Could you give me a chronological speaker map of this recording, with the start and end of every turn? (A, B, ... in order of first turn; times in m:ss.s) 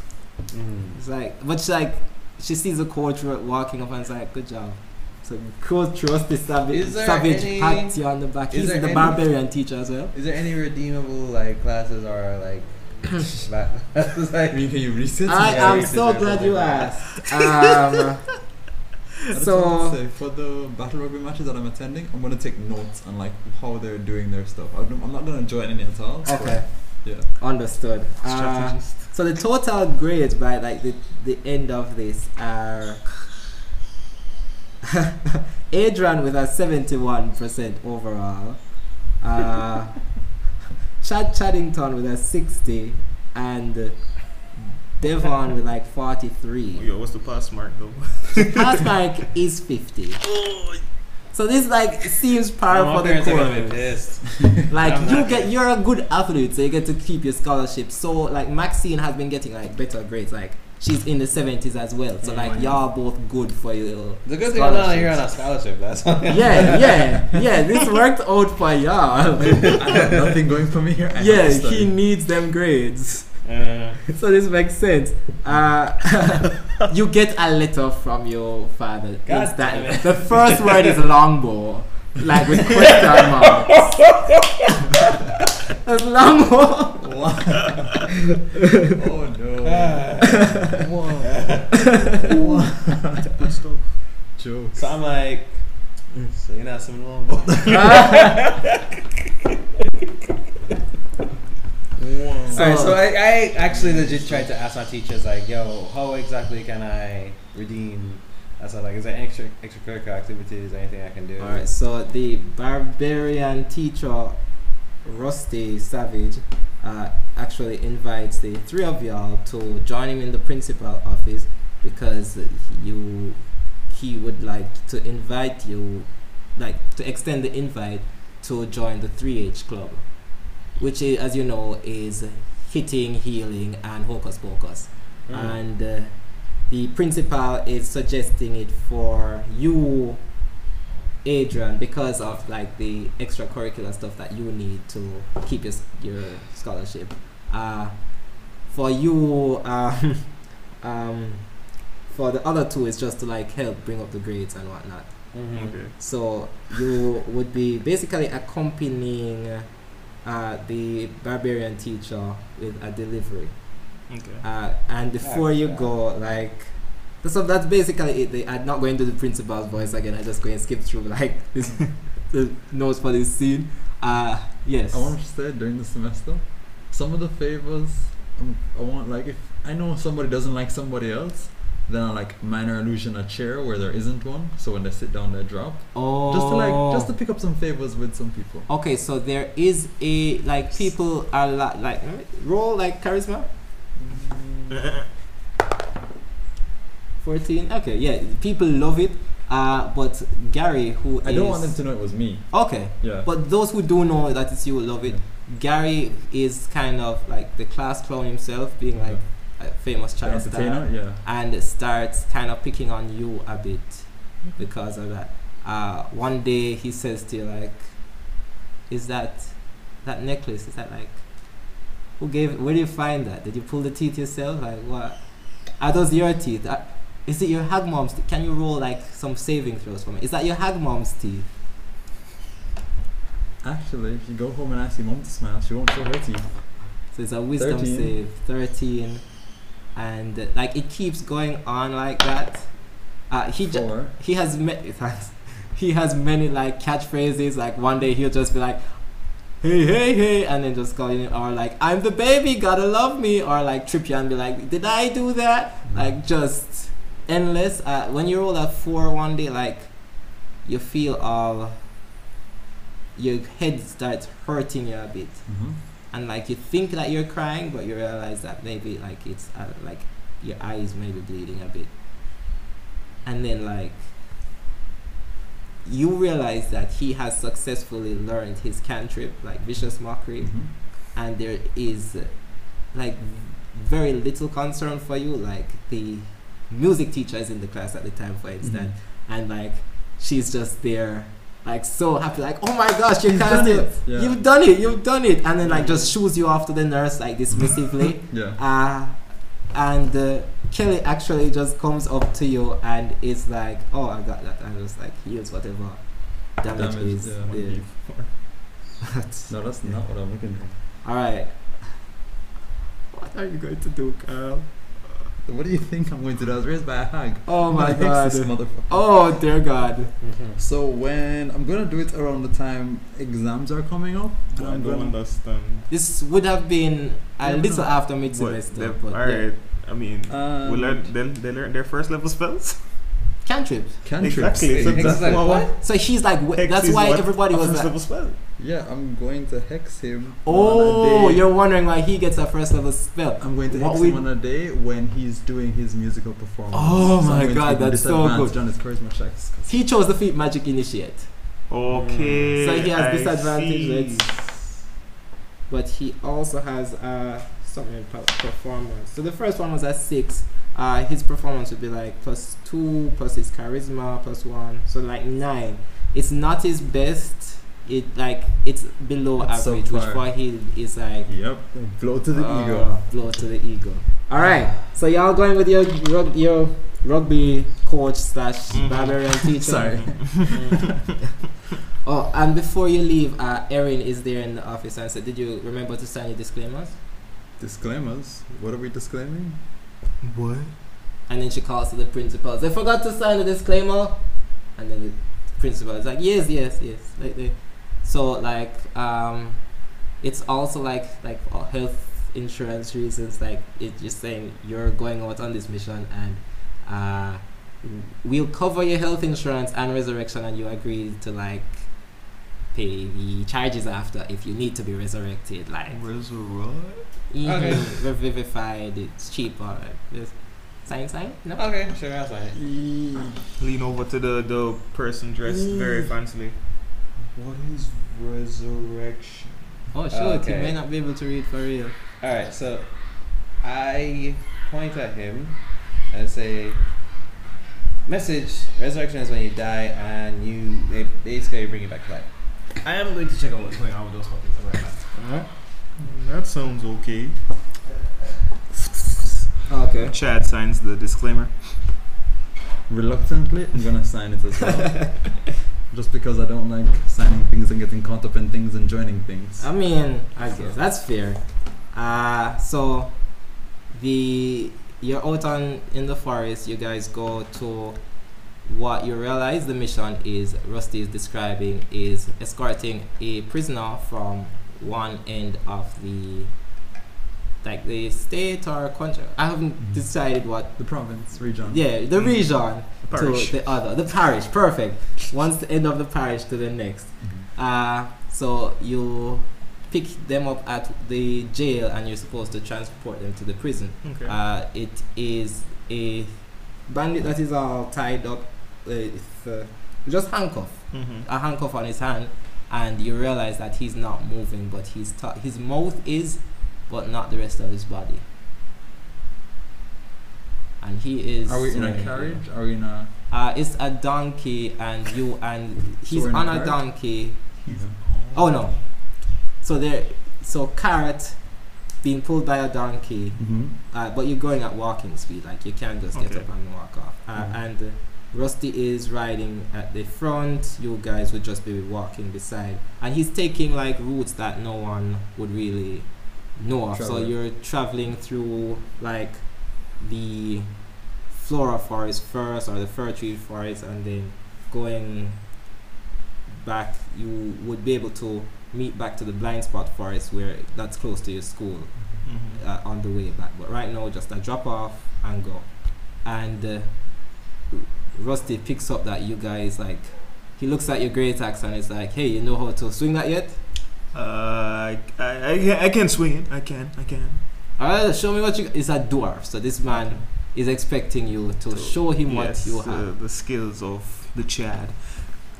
0:00.5-0:01.0 A
0:01.0-0:10.1 B
0:06.7-0:09.4 A
0:10.1-0:14.8 A
0:14.5-0:15.9 C
0:15.3-0:18.3 B
0:15.4-0:17.0 A
0:19.3-0:27.3 C
0:19.3-0:20.0 B
0:26.2-0:33.1 B
0:28.2-0:29.1 D
0:35.0-0:40.2 B
0:41.0-0:46.8 B
0:46.8-0:48.9 D
0:48.4-0:50.4 B
0:51.3-1:05.2 B
0:52.7-0:55.5 A
1:02.2-1:02.8 A
1:04.2-1:07.0 A
1:06.3-1:10.1 B
1:09.6-1:11.9 C
1:11.1-1:13.4 B
1:13.4-1:14.0 A
1:14.1-1:23.9 B
1:19.2-1:21.0 A
1:23.4-1:24.8 A
1:25.8-1:27.0 B
1:27.0-1:28.1 C
1:28.8-1:31.6 C
1:29.6-1:30.5 A
1:31.2-1:31.9 A
1:31.8-1:32.3 B
1:32.2-1:33.3 C
1:33.3-1:34.0 D
1:34.4-1:34.8 C
1:34.8-1:35.7 A
1:36.3-1:38.8 A
1:37.7-1:38.4 B
1:42.0-1:43.0 C
1:42.5-1:51.7 A
1:42.5-1:43.0 B
1:43.7-1:44.5 C
1:51.4-2:20.4 B
2:15.3-2:15.6 A
2:21.2-2:39.7 B
2:35.3-2:35.8 A
2:35.5-2:35.9 D
2:40.2-2:43.6 B
2:44.1-2:44.4 D
2:44.4-2:55.1 B
2:45.2-2:45.9 A
2:54.9-3:08.7 C
3:05.9-3:07.1 B
3:08.7-3:13.5 B
3:14.0-3:14.9 C
3:17.2-3:38.3 B
3:21.2-3:23.3 C
3:28.9-3:29.2 C
3:30.2-3:31.2 C
3:38.9-3:51.5 B
3:53.6-3:57.0 C
3:57.1-4:21.8 B
3:57.6-3:58.1 C
4:03.7-4:04.1 C
4:15.9-4:16.1 C
4:23.1-4:31.9 B
4:25.5-4:25.8 C
4:33.2-4:34.1 B
4:35.8-5:07.8 B
4:40.4-4:40.7 C
4:48.6-4:48.9 C
4:53.2-4:54.4 C
4:57.5-4:58.6 C
5:06.7-5:07.9 C
5:07.9-5:08.3 D
5:09.1-5:09.5 B
5:09.5-5:10.8 C
5:11.0-5:12.0 B
5:13.1-5:15.0 B
5:15.4-5:19.1 C
5:17.5-5:20.1 B
5:20.2-5:20.6 A
5:20.6-5:25.2 C
5:24.5-5:25.9 D
5:25.9-5:29.5 B
5:27.4-5:27.9 C
5:28.1-5:32.8 D
5:30.3-5:31.1 C
5:33.4-5:34.0 B
5:34.0-5:35.6 C
5:34.2-5:38.4 D
5:34.8-5:35.7 A
5:35.7-5:37.9 B
5:38.6-5:41.5 C
5:40.4-5:44.2 B
5:43.4-5:49.7 C
5:46.7-5:48.6 B
5:49.7-5:51.3 B
5:51.7-5:54.3 D
5:51.9-5:52.5 A
5:52.6-5:54.6 B
5:55.7-6:11.3 B
6:09.4-6:10.3 C
6:11.3-6:13.0 C
6:12.3-6:20.6 B
6:18.7-6:19.3 D
6:19.6-6:20.9 C
6:20.0-6:20.6 D
6:22.0-6:27.0 B
6:27.6-6:29.6 C
6:30.2-6:30.7 D
6:31.3-6:52.1 B
6:52.7-6:56.0 B
6:55.9-6:57.0 D
6:57.3-7:01.6 B
6:57.4-6:58.0 A
7:01.6-7:02.6 A
7:02.6-7:03.5 C
7:03.6-7:06.6 D
7:05.5-7:06.1 C
7:07.4-7:09.5 D
7:09.9-7:12.0 B
7:10.1-7:10.8 A
7:12.2-7:16.8 A
7:18.0-7:25.1 A
7:25.1-7:25.5 B
7:26.0-7:27.4 D
7:29.7-7:30.1 B
7:30.1-7:31.6 D
7:32.9-7:39.7 C
7:39.6-7:48.0 B
7:48.6-7:56.5 B
7:57.6-8:00.9 B
7:59.8-8:00.0 C
8:00.7-8:01.8 C
8:01.6-8:28.2 B
8:02.2-8:03.6 D
8:14.0-8:14.3 D
8:20.9-8:21.3 D
8:30.8-8:32.4 B
8:31.5-8:33.1 C
8:33.3-8:37.7 B
8:36.1-8:36.9 C
8:37.6-8:38.0 C
8:37.7-8:38.7 D
8:38.3-9:05.6 B
8:43.4-8:43.7 C
8:46.1-8:46.5 D
8:56.9-8:57.3 C
9:06.5-9:23.6 B
9:12.2-9:12.6 D
9:24.1-9:27.4 D
9:27.8-9:33.1 B
9:29.9-9:30.2 D
9:31.7-9:35.2 D